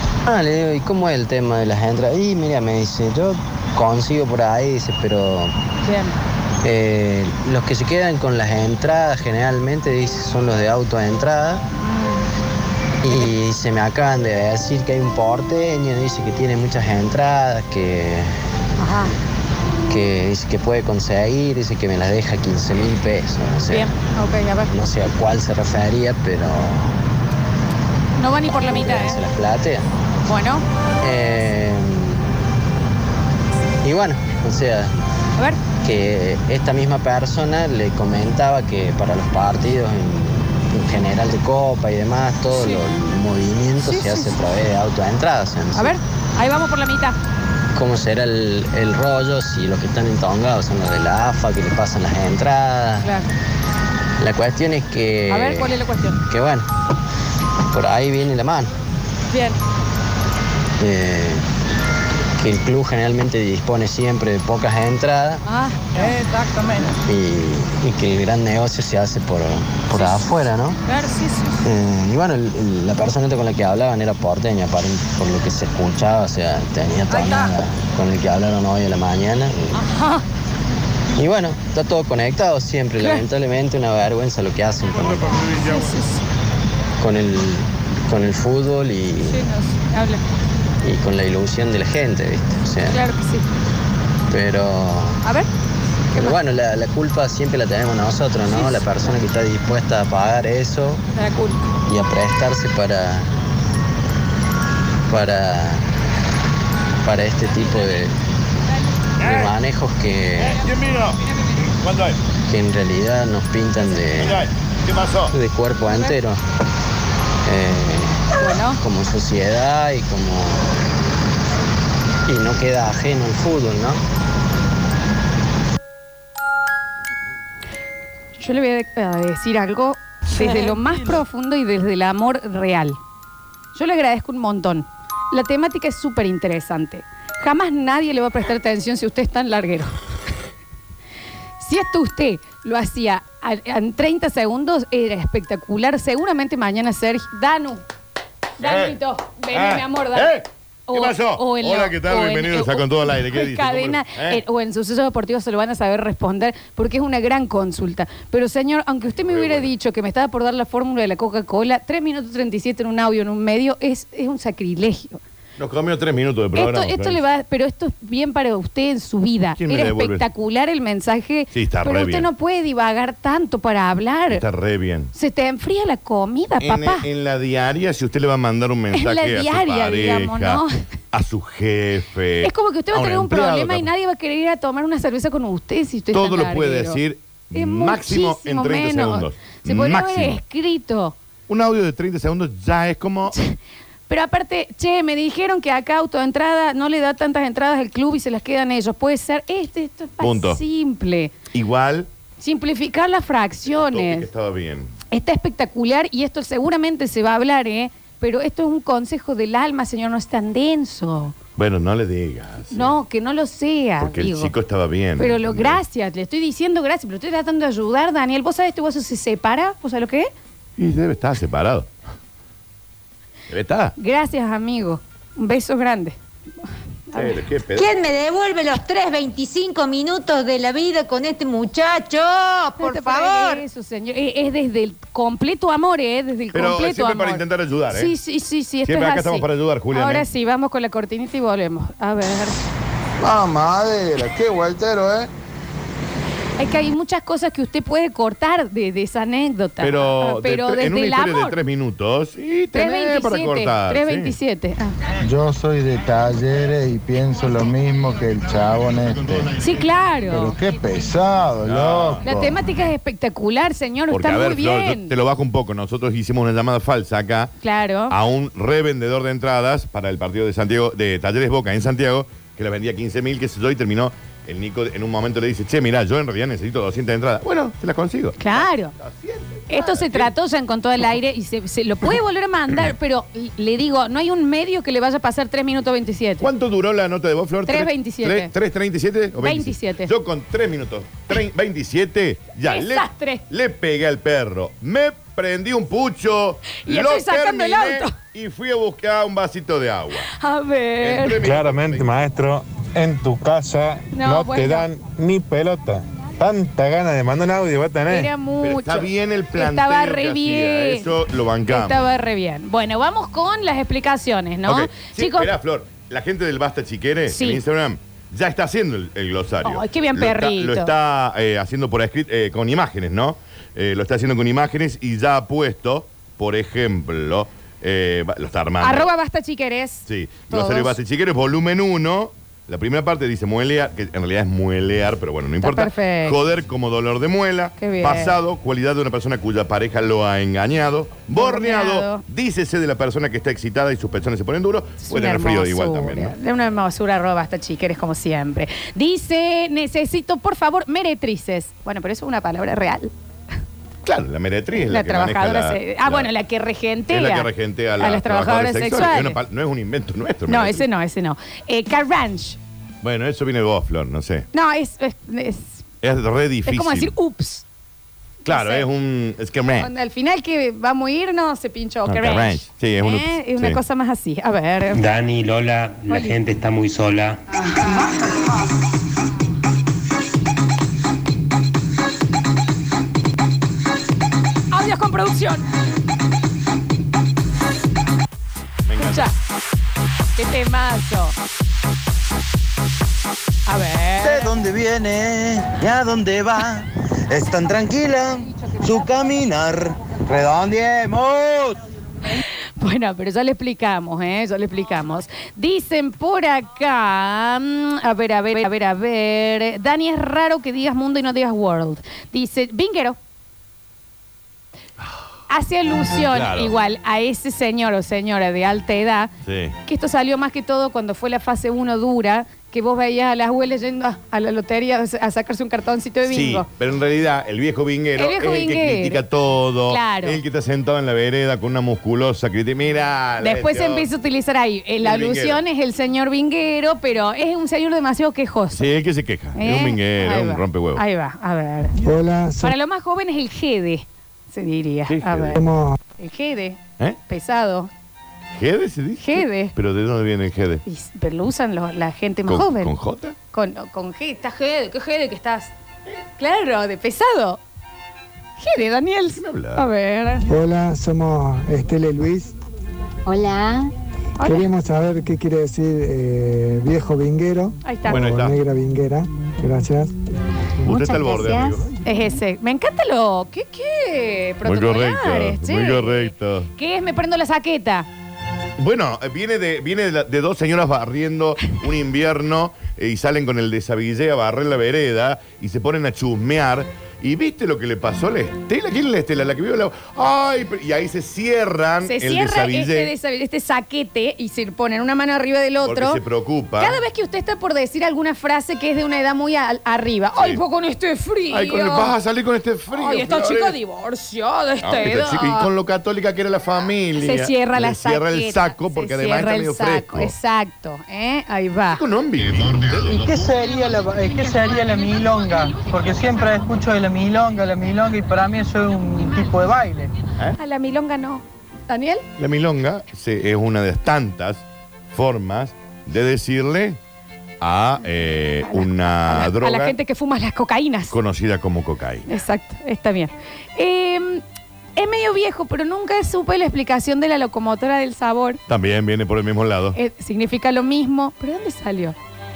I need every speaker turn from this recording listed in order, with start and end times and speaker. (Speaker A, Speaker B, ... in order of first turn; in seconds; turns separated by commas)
Speaker A: 0.2-5.5, Speaker B: 5.8-6.2, Speaker A: 6.6-11.6, Speaker B: 11.7-12.3, Speaker A: 13.0-18.4, Speaker B: 18.8-19.1, Speaker A: 19.9-23.9, Speaker B: 23.7-24.7, Speaker A: 24.7-27.0, Speaker B: 28.2-29.2, Speaker A: 28.5-29.9, Speaker B: 30.3-30.6, Speaker A: 31.0-32.3, Speaker A: 33.8-34.9, Speaker A: 35.8-46.0, Speaker B: 42.5-42.8, Speaker B: 43.8-44.4, Speaker B: 45.7-47.2, Speaker A: 47.7-53.1, Speaker B: 53.0-53.3, Speaker A: 54.2-56.8, Speaker B: 55.3-56.2, Speaker A: 57.7-58.7, Speaker B: 59.3-59.6, Speaker A: 60.8-61.4, Speaker A: 62.4-65.4, Speaker B: 65.4-66.2, Speaker A: 67.0-70.8, Speaker B: 69.9-71.7, Speaker A: 71.6-79.8, Speaker B: 77.1-77.5, Speaker B: 79.7-80.2, Speaker A: 81.1-85.6, Speaker B: 85.4-86.2, Speaker A: 87.0-89.4, Speaker B: 89.2-90.2, Speaker A: 90.8-93.0, Speaker B: 92.9-93.5, Speaker A: 94.3-95.2, Speaker B: 95.2-95.5, Speaker A: 96.1-101.0, Speaker B: 98.5-99.1, Speaker B: 101.1-101.7, Speaker A: 101.9-103.3, Speaker A: 105.1-105.9, Speaker A: 107.0-108.1, Speaker A: 109.2-110.6, Speaker C: 109.2-109.5, Speaker C: 110.5-112.2, Speaker A: 112.4-114.4, Speaker C: 114.2-115.3, Speaker A: 115.3-116.4, Speaker A: 117.4-120.8, Speaker B: 118.4-118.8, Speaker A: 122.2-124.0, Speaker B: 128.4-133.0, Speaker B: 133.7-140.0, Speaker B: 141.6-147.8, Speaker B: 148.6-150.4, Speaker C: 148.6-148.9, Speaker C: 149.5-154.4, Speaker B: 150.9-165.2, Speaker C: 159.2-159.7, Speaker C: 165.6-167.2, Speaker B: 166.5-174.4, Speaker C: 169.6-170.2, Speaker C: 171.5-172.3, Speaker C: 174.3-175.1, Speaker B: 175.1-177.1, Speaker C: 176.6-183.9, Speaker B: 178.9-180.8, Speaker B: 182.4-187.0, Speaker C: 186.1-190.4, Speaker B: 187.5-191.2, Speaker C: 191.5-193.3, Speaker B: 194.1-201.3, Speaker C: 200.2-200.6, Speaker C: 201.5-202.1, Speaker B: 202.4-204.3, Speaker C: 203.7-204.9, Speaker B: 205.1-211.3, Speaker C: 211.6-212.9, Speaker B: 212.7-214.5, Speaker C: 214.0-215.8, Speaker B: 215.2-220.3, Speaker C: 220.8-221.9, Speaker C: 223.5-223.9, Speaker B: 224.0-226.2, Speaker B: 227.1-227.3, Speaker C: 227.1-227.9, Speaker D: 227.7-233.6, Speaker B: 232.8-242.6, Speaker C: 236.5-238.1, Speaker C: 238.8-240.2, Speaker E: 243.2-245.3, Speaker B: 246.6-251.6, Speaker C: 249.8-254.3, Speaker B: 252.7-254.9, Speaker E: 255.2-259.6, Speaker B: 259.6-260.6, Speaker E: 260.3-262.3, Speaker C: 261.6-262.5, Speaker B: 262.2-265.1, Speaker C: 264.1-267.5, Speaker B: 267.6-268.1, Speaker C: 268.1-280.3, Speaker B: 278.4-278.9, Speaker B: 279.7-286.5, Speaker C: 286.4-300.3, Speaker B: 287.6-288.5, Speaker B: 289.4-290.1, Speaker B: 292.6-293.4, Speaker B: 296.8-298.1, Speaker B: 300.3-301.4, Speaker C: 301.0-302.2, Speaker F: 301.4-308.3, Speaker B: 304.1-304.9, Speaker B: 308.1-311.1, Speaker C: 308.6-312.0, Speaker B: 311.7-315.5, Speaker C: 314.6-329.1, Speaker B: 317.3-317.6, Speaker B: 319.6-320.9, Speaker B: 328.8-331.0, Speaker C: 330.1-346.3, Speaker B: 335.6-336.4, Speaker B: 337.8-338.4, Speaker B: 341.4-342.2, Speaker B: 345.0-353.1, Speaker C: 354.0-356.3, Speaker B: 354.9-359.4, Speaker C: 357.1-360.8, Speaker B: 360.5-362.6, Speaker C: 363.0-364.4, Speaker B: 364.5-365.8, Speaker C: 366.0-367.1, Speaker B: 366.6-367.6, Speaker B: 368.4-368.9, Speaker C: 368.4-369.9, Speaker B: 369.8-375.0, Speaker C: 372.1-373.8, Speaker G: 374.9-377.4, Speaker B: 376.1-376.4, Speaker B: 384.7-385.7, Speaker C: 388.9-389.3, Speaker B: 389.0-389.3, Speaker B: 390.4-391.4, Speaker B: 393.6-394.5, Speaker H: 394.2-401.8, Speaker B: 402.8-413.2, Speaker B: 415.5-419.3, Speaker C: 416.2-416.7, Speaker C: 419.4-419.8, Speaker B: 419.9-426.7, Speaker C: 426.2-434.1, Speaker B: 428.2-429.2, Speaker B: 429.9-430.4, Speaker B: 433.4-438.8, Speaker C: 435.0-435.6, Speaker C: 438.7-441.0, Speaker B: 439.6-441.9, Speaker I: 442.0-442.8, Speaker B: 442.6-445.6, Speaker C: 445.1-445.6, Speaker I: 445.5-446.0, Speaker B: 446.2-447.9, Speaker C: 448.6-450.8, Speaker B: 449.2-449.7, Speaker B: 450.9-452.9, Speaker C: 452.5-453.3, Speaker B: 453.5-455.7, Speaker B: 456.4-457.6, Speaker B: 458.6-460.4, Speaker C: 459.3-459.8, Speaker I: 460.5-462.5, Speaker B: 464.4-464.7, Speaker I: 464.4-470.1, Speaker B: 467.8-468.2, Speaker C: 468.1-468.6, Speaker C: 470.8-471.9, Speaker B: 472.0-478.1, Speaker C: 474.6-476.7, Speaker C: 478.8-493.1, Speaker B: 492.0-496.2, Speaker C: 495.8-497.0, Speaker B: 496.8-502.1, Speaker C: 500.4-500.6, Speaker C: 501.5-503.8, Speaker B: 502.9-505.7, Speaker C: 504.8-510.3, Speaker B: 507.2-512.0, Speaker C: 511.9-513.4, Speaker B: 520.5-522.2, Speaker C: 522.4-527.0, Speaker C: 527.6-530.0, Speaker B: 528.6-531.1, Speaker C: 531.1-532.2, Speaker B: 532.3-534.4, Speaker B: 535.0-538.6, Speaker C: 538.7-540.0, Speaker B: 539.9-542.1